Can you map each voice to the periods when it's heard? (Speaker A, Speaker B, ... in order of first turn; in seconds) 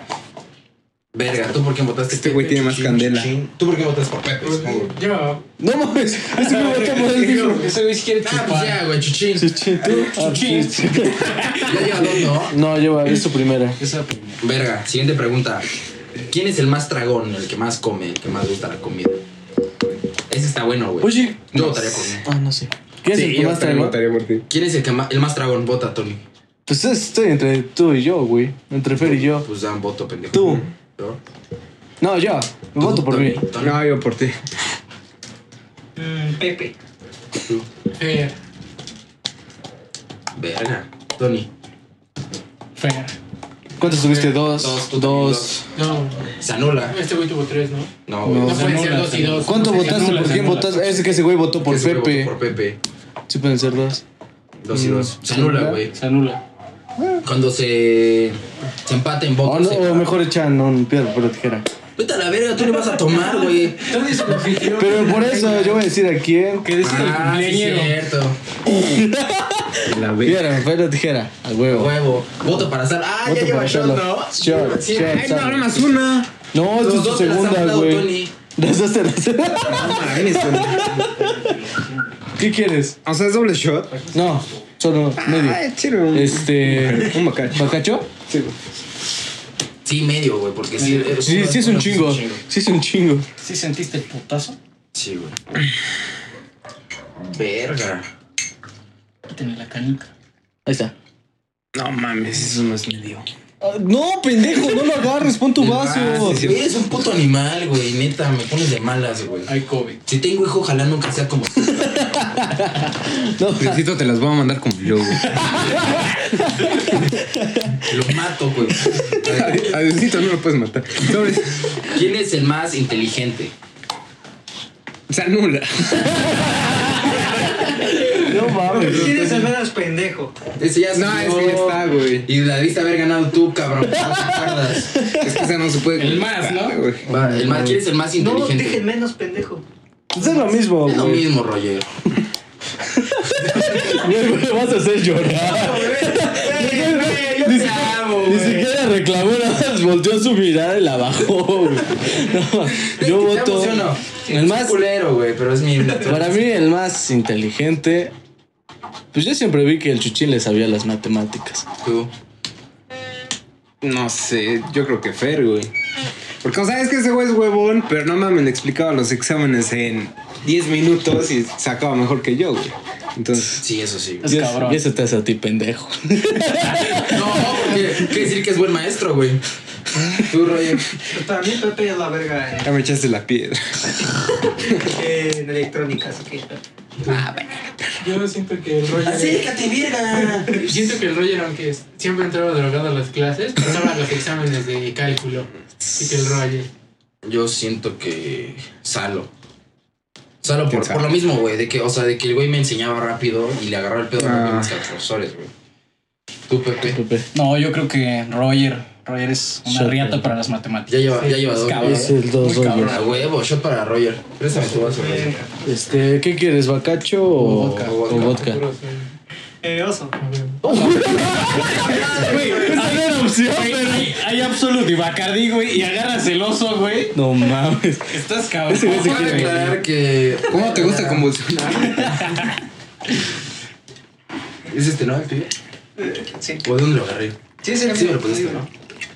Speaker A: 1.1-4.9, 8.2-9.5, 11.6-12.6, 14.4-15.7, 16.2-19.2, 20.3-22.3, 24.5-26.2, 29.0-31.2, 32.8-33.8, 40.4-41.5, 44.5-45.6, 46.4-47.0, 48.1-49.0, 51.6-52.8, 54.6-55.9, 57.2-60.1, 62.0-63.9, 66.8-68.4, 71.7-75.3, 76.7-78.3, 89.8-92.4, 94.9-95.4, 97.2-98.0, 105.6-109.5, 110.1-112.2, 117.9-119.7, 121.8-123.5, 130.6-135.1, 137.1-138.9, 140.8-141.9, 143.5-143.9, 145.3-148.7, 152.9-156.4, 161.8-162.1, 173.6-174.3, 177.1-179.4, 180.2-181.0, 188.9-190.7, 197.2-199.3, 200.4-205.5, 206.5-207.0, 210.9-212.2, 212.9-215.4, 217.5-218.4, 228.8-231.3, 234.7-235.5, 236.6-238.7
Speaker B: 2.1-3.3, 23.1-24.4, 33.6-34.4, 69.8-70.7, 74.8-76.3, 79.7-81.1, 83.0-84.0, 85.2-88.6, 101.7-103.3, 105.9-106.7, 113.6-115.6, 119.1-121.8, 125.1-126.7, 130.9-132.3, 135.1-137.1, 163.8-165.7, 166.4-173.6, 182.6-184.1, 187.1-187.4, 200.7-201.1, 204.1-204.8, 230.4-232.5
Speaker C: 4.4-5.4, 6.8-8.1, 38.0-38.4, 43.8-44.4, 45.8-46.2, 46.8-47.9, 48.4-50.7, 64.3-65.8, 188.0-189.5, 190.5-196.7, 217.6-219.1, 220.2-220.6
Speaker D: 5.6-7.7, 9.4-11.5, 12.4-13.8, 21.0-24.0, 26.7-29.5, 30.3-30.6, 32.0-33.4, 43.8-45.6, 48.2-48.8, 49.4-52.3, 53.3-54.0, 54.7-55.8, 59.4-61.7, 64.7-66.7, 68.7-71.9, 73.2-75.9, 76.5-81.3, 82.4-83.0, 84.1-88.1, 91.2-93.3, 100.7-100.9, 103.6-106.4, 112.1-113.8, 115.6-117.8, 128.1-129.1, 137.1-137.8, 140.2-141.3, 143.0-154.8, 156.0-158.1, 159.1-161.7, 174.2-177.5, 206.9-207.2, 209.7-210.4, 211.8-213.0, 215.7-218.6, 220.6-224.2, 227.1-229.7
Speaker E: 6.3-8.8, 9.9-12.1, 13.8-14.4, 42.8-43.1, 48.5-51.1, 55.9-56.4, 63.8-65.7, 66.6-68.0, 80.8-82.0, 83.9-84.6, 90.8-91.2, 93.4-94.6, 99.3-100.1, 109.5-110.0, 127.9-128.1, 135.9-136.8, 174.2-174.8, 207.3-213.1, 221.6-227.2, 228.1-229.8
Speaker F: 36.0-36.7, 128.5-130.3, 138.2-139.7, 140.2-140.5, 181.1-182.8, 184.8-186.6, 214.5-215.5, 219.6-220.2, 221.5-222.8, 236.0-236.6, 237.6-238.6